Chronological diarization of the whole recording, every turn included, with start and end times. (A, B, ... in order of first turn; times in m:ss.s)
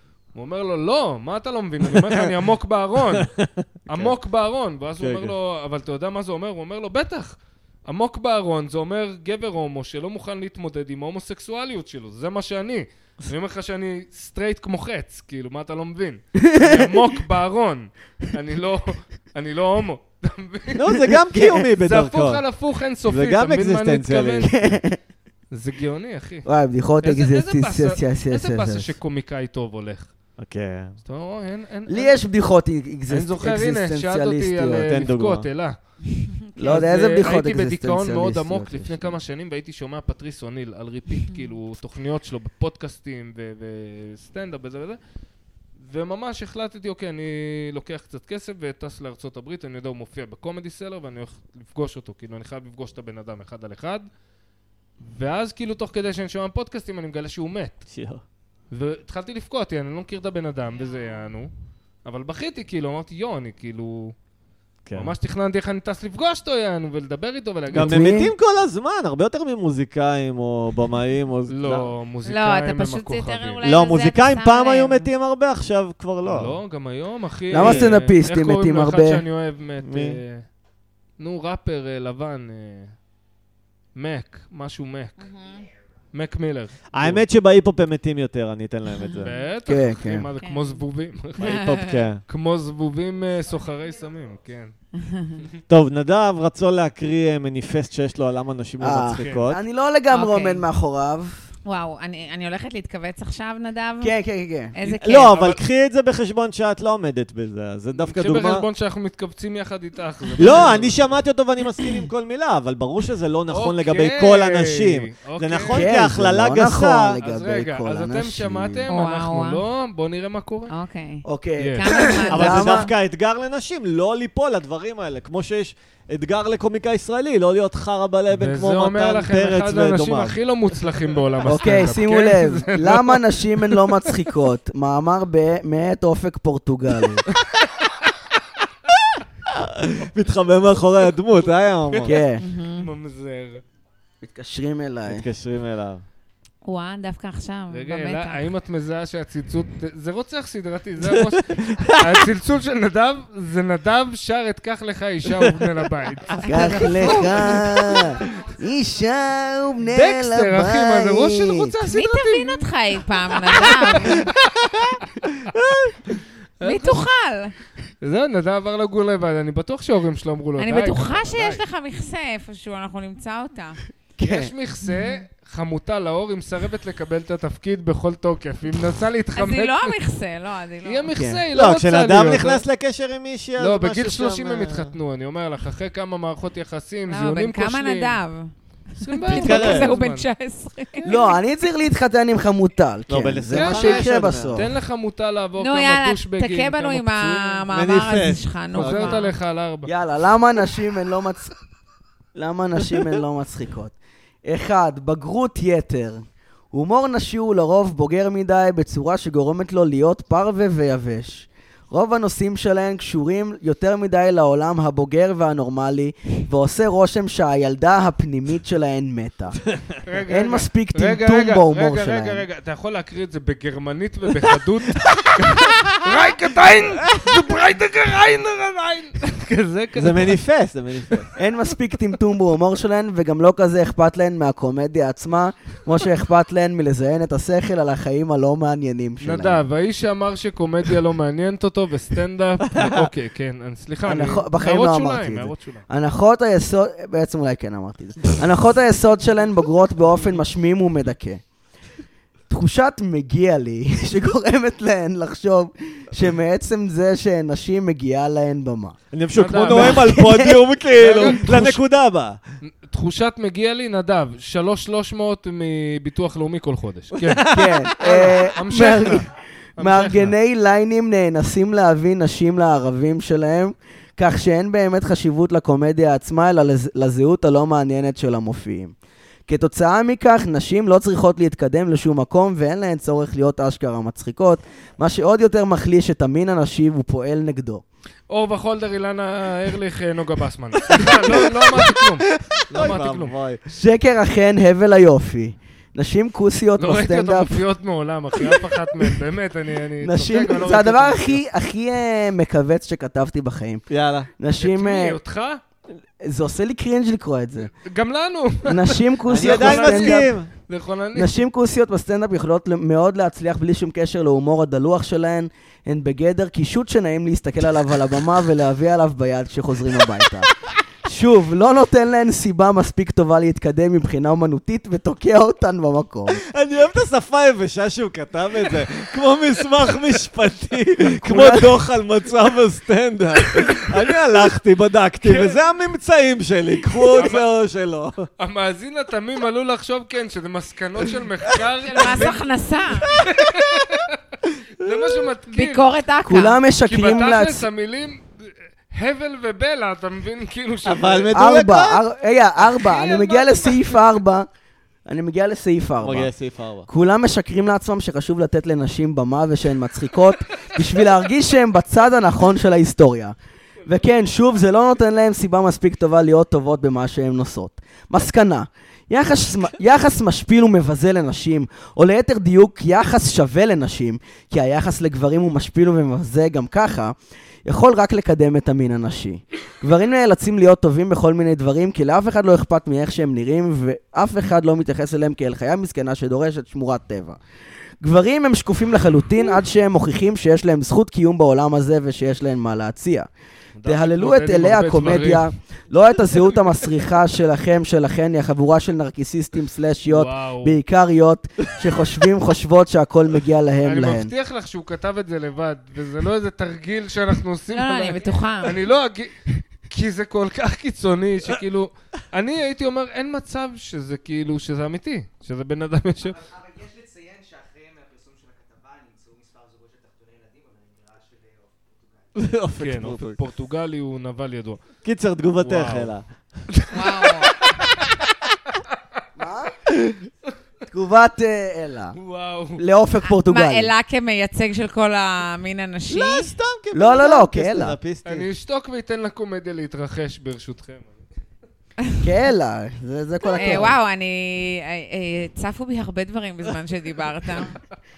0:00.3-0:03.3 A
0:03.1-0:04.1 B
0:03.9-0:21.0 A
0:05.0-0:05.3 B
0:16.4-0:16.9 C
0:20.7-0:22.4 B
0:21.3-0:21.6 C
0:21.8-0:24.5 A
0:23.1-0:24.8 B
0:24.4-0:25.0 C
0:25.5-0:26.5 A
0:26.4-0:28.9 C
0:27.0-0:30.1 A
0:30.4-0:31.0 B
0:31.0-0:32.1 A
0:31.9-0:34.9 C
0:33.1-0:35.8 A
0:34.8-0:35.5 B
0:36.6-0:39.2 C
0:36.6-0:45.0 A
0:45.8-0:54.0 A
0:55.0-0:57.8 A
0:57.9-0:58.2 B
0:58.7-1:01.5 A
1:02.0-1:04.1 A
1:04.8-1:05.1 B
1:04.9-1:08.2 A
1:07.7-1:11.9 B
1:07.7-1:08.3 C
1:11.5-1:13.6 A
1:12.2-1:15.1 D
1:13.6-1:16.6 B
1:16.2-1:20.4 A
1:17.5-1:19.2 C
1:17.5-1:18.0 B
1:19.8-1:20.2 B
1:21.2-1:22.9 A
1:24.0-1:25.2 A
1:25.2-1:25.7 D
1:26.1-1:27.2 A
1:26.9-1:29.3 B
1:29.2-1:34.7 A
1:29.7-1:30.3 C
1:30.4-1:30.8 D
1:31.4-1:32.2 B
1:31.4-1:32.0 D
1:35.0-1:35.4 D
1:35.7-1:39.6 B
1:38.8-1:41.4 C
1:39.1-1:39.4 A
1:40.1-1:40.6 D
1:41.6-1:44.1 D
1:44.0-1:44.7 C
1:44.7-1:45.4 D
1:44.9-1:45.6 A
1:44.9-1:48.6 B
1:47.9-1:51.1 A
1:50.4-1:57.2 B
1:53.5-1:56.0 A
1:55.7-1:58.8 C
1:57.2-2:00.7 A
1:58.9-1:59.6 D
2:00.7-2:02.9 D
2:01.2-2:02.9 C
2:01.6-2:02.2 A
2:02.3-2:10.4 B
2:08.3-2:14.1 A
2:11.4-2:17.2 C
2:19.5-2:22.2 B
2:21.9-2:22.2 A
2:22.0-2:22.4 C
2:22.4-2:22.9 D
2:22.8-2:23.6 A
2:24.2-2:25.2 C
2:25.0-2:26.0 B
2:26.6-2:28.4 D
2:27.7-2:38.1 A
2:31.0-2:32.2 B
2:36.4-2:37.1 D
2:36.5-2:41.7 C
2:37.5-2:37.8 B
2:39.8-2:42.7 A
2:41.9-2:44.2 D
2:43.3-2:44.6 A
2:44.7-2:46.1 B
2:46.6-2:47.0 A
2:46.6-2:47.5 D
2:48.0-2:51.6 A
2:50.6-2:53.8 D
2:54.2-2:54.5 C
2:54.2-3:00.0 A
2:54.8-2:55.2 D
2:59.4-3:01.1 D
3:00.8-3:02.6 A
3:01.1-3:01.4 C
3:01.5-3:04.9 B
3:03.6-3:08.2 A
3:07.1-3:11.3 D
3:09.0-3:10.2 A
3:09.3-3:09.9 B
3:11.0-3:14.7 C
3:13.1-3:14.7 B
3:13.5-3:17.6 A
3:15.6-3:19.3 D
3:17.7-3:19.2 B
3:18.7-3:19.9 A
3:19.9-3:21.5 C
3:22.3-3:39.6 C
3:40.0-3:50.4 A
3:40.3-3:42.4 C
3:46.8-3:47.5 B
3:49.9-3:51.3 B
3:51.4-3:59.6 C
3:59.2-4:05.8 A
4:02.7-4:03.1 B
4:04.1-4:11.4 C
4:12.5-4:19.0 C
4:19.1-4:22.4 B
4:19.3-4:20.3 A
4:19.6-4:20.6 C
4:20.9-4:21.7 A
4:21.2-4:21.8 C
4:22.6-4:29.2 A
4:27.1-4:28.4 B
4:27.5-4:38.9 C
4:29.8-4:30.3 A
4:39.5-4:47.8 C
4:48.3-4:53.3 A
4:50.8-4:53.6 B
4:53.7-4:57.6 C
4:56.8-5:01.4 A
5:00.0-5:05.2 C
5:03.9-5:04.3 B
5:04.6-5:05.6 A
5:06.2-5:07.7 C
5:07.7-5:11.4 A
5:08.7-5:10.2 C
5:09.3-5:10.5 B
5:11.1-5:26.4 C
5:26.3-5:38.3 B
5:31.1-5:31.8 C
5:35.2-5:35.6 A
5:37.1-5:37.5 A
5:38.4-5:42.4 A
5:41.8-5:43.1 D
5:43.1-5:44.2 A
5:43.2-5:44.0 B
5:44.8-5:45.8 A
5:45.5-5:46.6 D
5:46.2-5:47.7 C
5:46.8-5:51.3 A
5:50.8-5:52.0 B
5:51.3-5:54.5 C
5:52.6-5:54.0 A
5:55.0-5:56.3 C
5:56.0-5:56.9 B
5:56.9-6:03.3 C
6:03.8-6:27.4 C
6:28.0-6:33.3 C
6:33.8-6:35.5 A
6:33.8-6:44.3 C
6:40.0-6:40.8 A
6:43.8-6:56.4 A
6:47.7-6:48.8 D
6:56.3-7:02.4 E
7:02.3-7:03.4 B
7:02.8-7:04.8 A
7:05.0-7:06.6 B
7:05.6-7:06.1 A
7:06.7-7:08.1 A
7:06.9-7:07.7 D
7:09.4-7:10.3 C
7:10.9-7:12.2 C
7:12.1-7:12.8 A
7:12.8-7:13.9 C
7:13.2-7:16.5 D
7:16.1-7:18.5 B
7:16.9-7:18.0 C
7:18.2-7:21.1 A
7:22.2-7:24.0 C
7:23.5-7:27.8 D